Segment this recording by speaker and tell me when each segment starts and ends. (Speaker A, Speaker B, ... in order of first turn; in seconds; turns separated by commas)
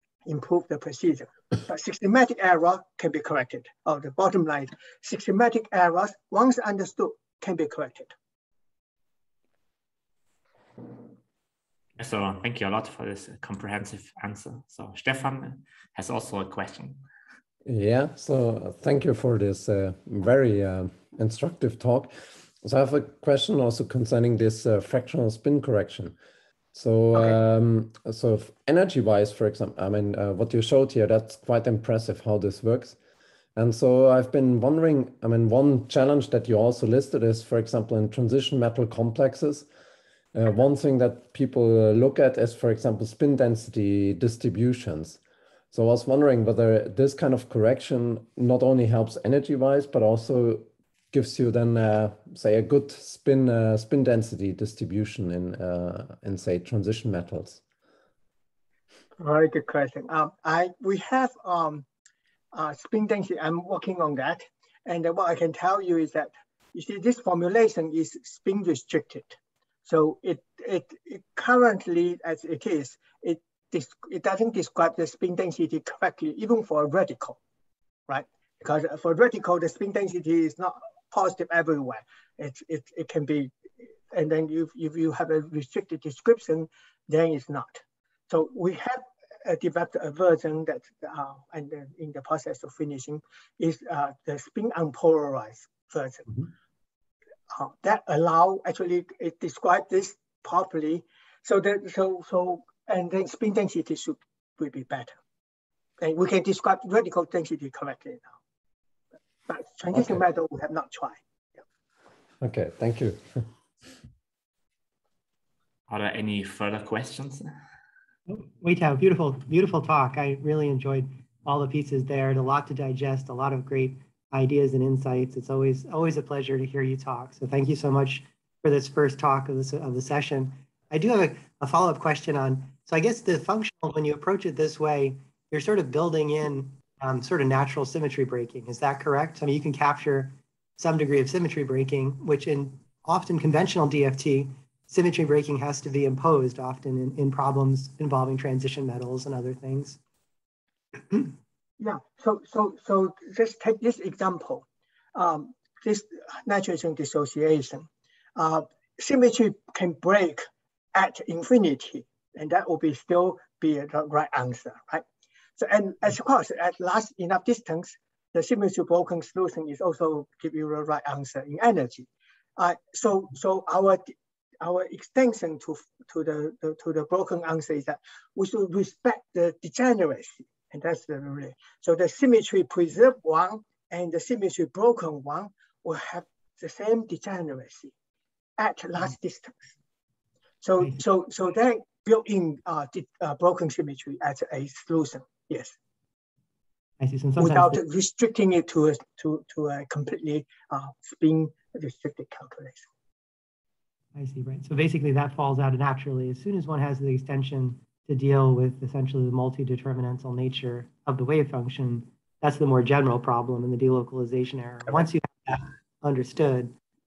Speaker A: 0.3-8.1, Speaker B: 12.0-17.0, Speaker C: 17.6-26.1, Speaker C: 26.7-33.0, Speaker C: 33.5-39.7, Speaker C: 40.3-45.2, Speaker C: 45.7-57.6, Speaker A: 59.2-61.9, Speaker A: 62.5-77.4, Speaker A: 78.1-83.5, Speaker A: 84.1-96.4, Speaker A: 97.5-105.2, Speaker A: 106.0-108.3, Speaker A: 109.5-111.2, Speaker C: 112.4-113.5, Speaker B: 115.9-117.5, Speaker D: 118.3-150.0, Speaker A: 151.8-165.0, Speaker A: 165.6-187.9, Speaker A: 188.6-189.7, Speaker A: 190.6-195.7, Speaker D: 197.0-197.8, Speaker A: 197.4-202.8, Speaker D: 204.1-216.7